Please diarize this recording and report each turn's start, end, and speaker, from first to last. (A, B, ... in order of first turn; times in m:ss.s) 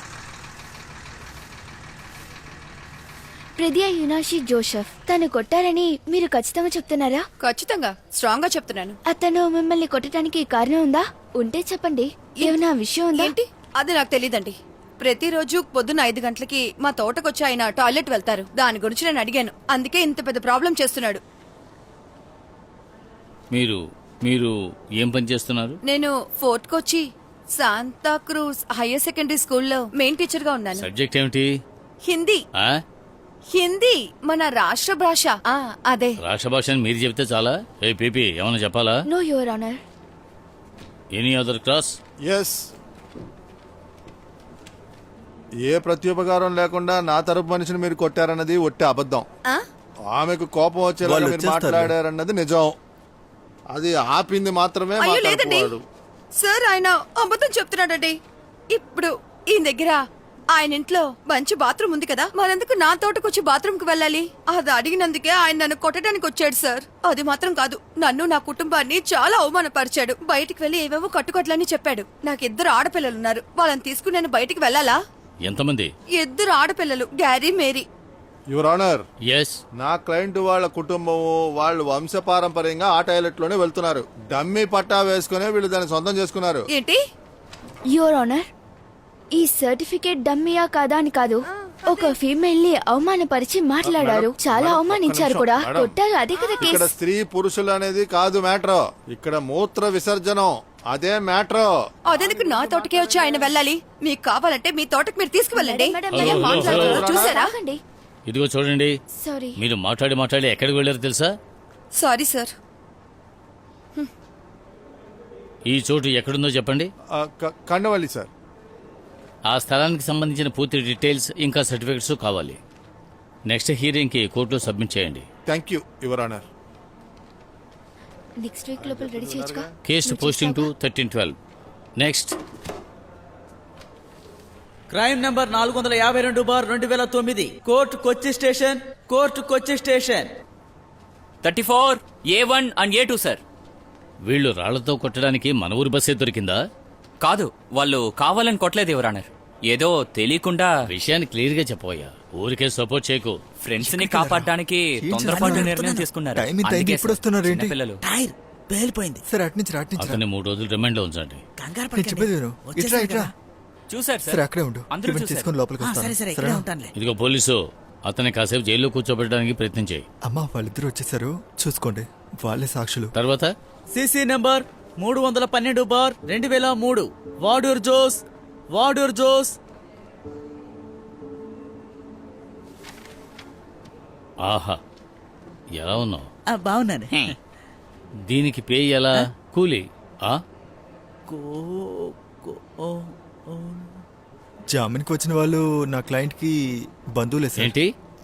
0:03.6-0:07.3 A
0:07.4-0:09.0 B
0:09.1-0:13.3 A
0:13.1-0:21.2 B
0:23.5-0:25.8 C
0:25.9-0:27.0 B
0:27.5-0:30.9 B
0:30.8-0:31.5 C
0:32.0-0:32.4 B
0:33.5-0:36.2 B
0:36.2-0:39.0 C
0:39.1-0:39.8 A
0:41.1-0:42.0 C
0:42.2-0:42.7 D
0:45.6-0:49.3 D
0:50.1-0:52.8 D
0:51.0-0:51.9 E
0:53.7-0:55.8 D
0:55.0-0:55.8 B
0:56.4-0:58.2 B
0:58.7-1:00.0 B
1:00.5-1:15.0 B
1:15.4-1:15.9 C
1:16.2-1:17.9 B
1:18.5-1:19.0 D
1:19.3-1:19.6 C
1:19.8-1:26.7 D
1:26.7-1:27.0 B
1:27.9-1:28.5 A
1:29.4-1:36.9 A
1:31.6-1:32.2 B
1:33.8-1:35.9 D
1:36.4-1:36.8 B
1:36.6-1:43.6 D
1:42.0-1:47.5 B
1:45.5-1:47.8 A
1:46.1-1:47.1 C
1:46.3-1:47.4 D
1:48.3-1:48.9 C
1:49.2-1:49.6 A
1:49.6-1:51.4 C
1:51.9-1:52.5 B
1:55.7-1:56.9 C
1:57.2-1:58.3 D
1:59.5-2:02.6 C
2:03.5-2:05.3 C
2:05.5-2:06.4 D
2:08.4-2:10.7 A
2:08.8-2:09.7 D
2:09.8-2:11.4 C
2:12.0-2:12.3 C
2:14.9-2:20.3 F
2:21.4-2:23.4 G
2:24.2-2:26.6 C
2:27.2-2:30.7 G
2:30.9-2:33.4 C
2:33.6-2:38.0 G
2:33.8-2:35.8 E
2:35.3-2:36.1 F
2:36.4-2:37.7 E
2:38.0-2:39.2 F
2:39.3-2:40.2 E
2:40.0-2:41.4 C
2:41.6-2:43.3 F
2:41.9-2:43.3 E
2:43.9-2:45.5 G
2:44.3-2:46.7 E
2:45.8-2:46.9 F
2:47.0-2:50.0 C
2:50.3-2:53.1 E
2:53.1-2:53.5 C
2:53.9-2:59.6 F
3:04.4-3:04.8 C
3:05.8-3:06.2 C
3:06.5-3:07.4 F
3:08.3-3:10.4 C
3:11.3-3:14.0 F
3:14.7-3:16.6 E
3:17.2-3:17.7 E
3:17.6-3:17.9 C